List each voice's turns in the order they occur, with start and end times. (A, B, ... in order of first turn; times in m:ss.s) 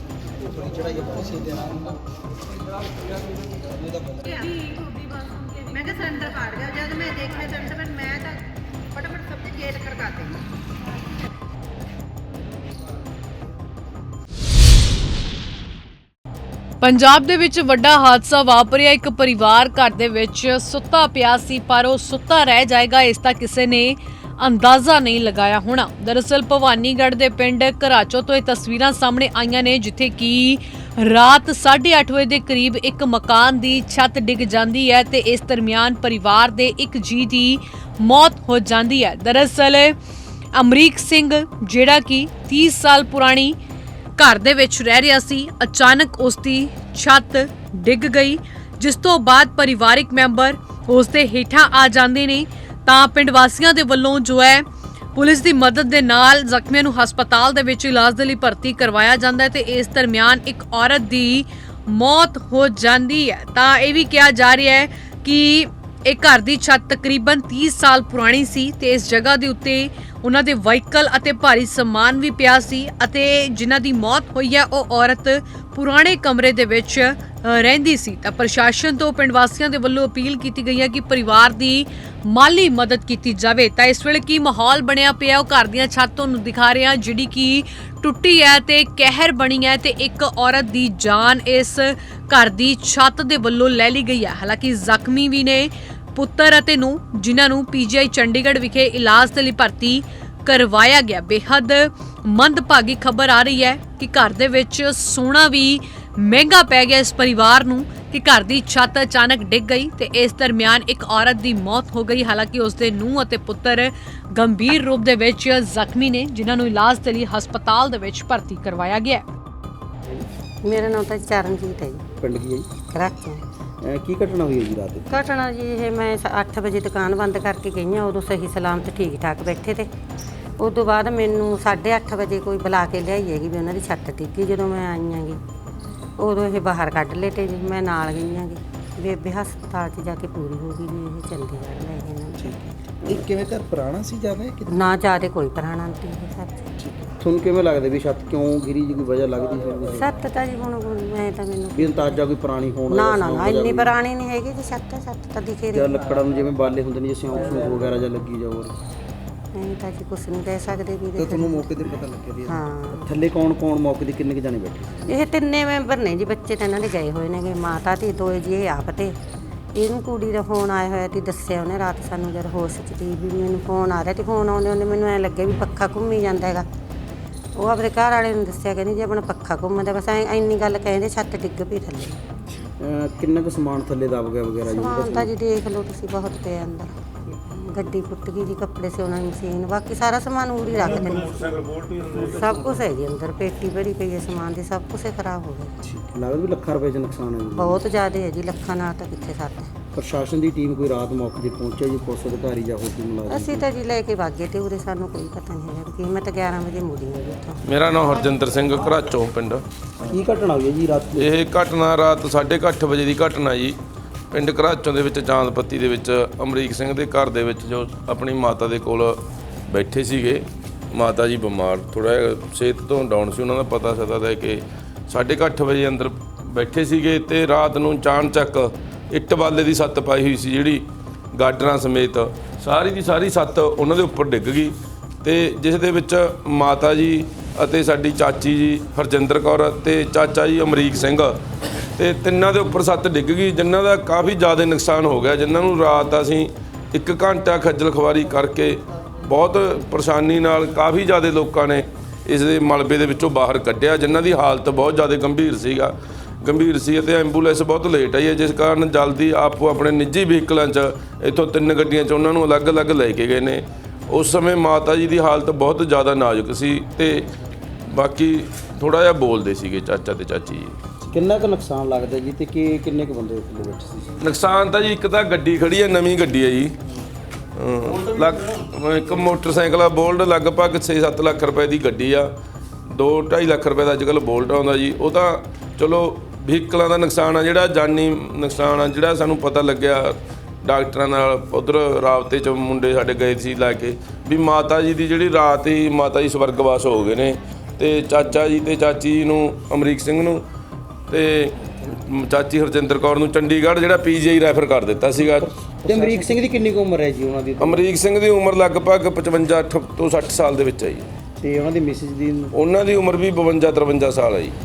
0:00.3-0:01.9 A
0:03.0-0:04.6 A
0:16.8-0:40.0 B
0:40.5-0:43.6 B
0:44.2-1:59.2 B
2:00.6-2:02.0 C
2:02.2-2:02.7 A
2:02.9-2:03.4 C
2:03.8-2:05.2 A
2:05.1-2:09.9 C
2:10.6-2:15.4 C
2:16.2-2:22.5 C
2:22.4-2:24.8 A
2:24.7-2:26.7 C
2:26.8-2:30.1 A
2:29.9-2:32.2 C
2:31.7-2:34.0 A
2:32.9-2:35.9 C
2:35.7-2:38.7 A
2:39.6-2:41.7 C
2:41.2-2:45.2 A
2:42.5-2:43.1 C
2:45.1-2:49.1 C
2:49.8-2:56.6 C
2:57.6-3:02.2 C
3:02.8-3:05.3 A
3:04.7-3:15.8 C
3:15.8-3:17.8 A
3:17.6-3:19.7 C
3:19.9-3:23.7 A
3:23.3-3:27.6 C
3:27.6-3:29.6 D
3:30.0-3:31.3 A
3:31.2-3:33.8 D
3:34.3-4:01.4 D
4:02.0-4:27.3 D
4:27.9-4:30.8 D
4:31.1-4:34.2 A
4:34.2-4:36.8 D
4:37.6-4:42.3 D
4:42.9-5:00.4 D
5:01.1-5:05.5 D
5:05.4-5:07.8 A
5:07.6-5:11.1 D
5:11.4-5:12.5 A
5:12.5-5:14.6 D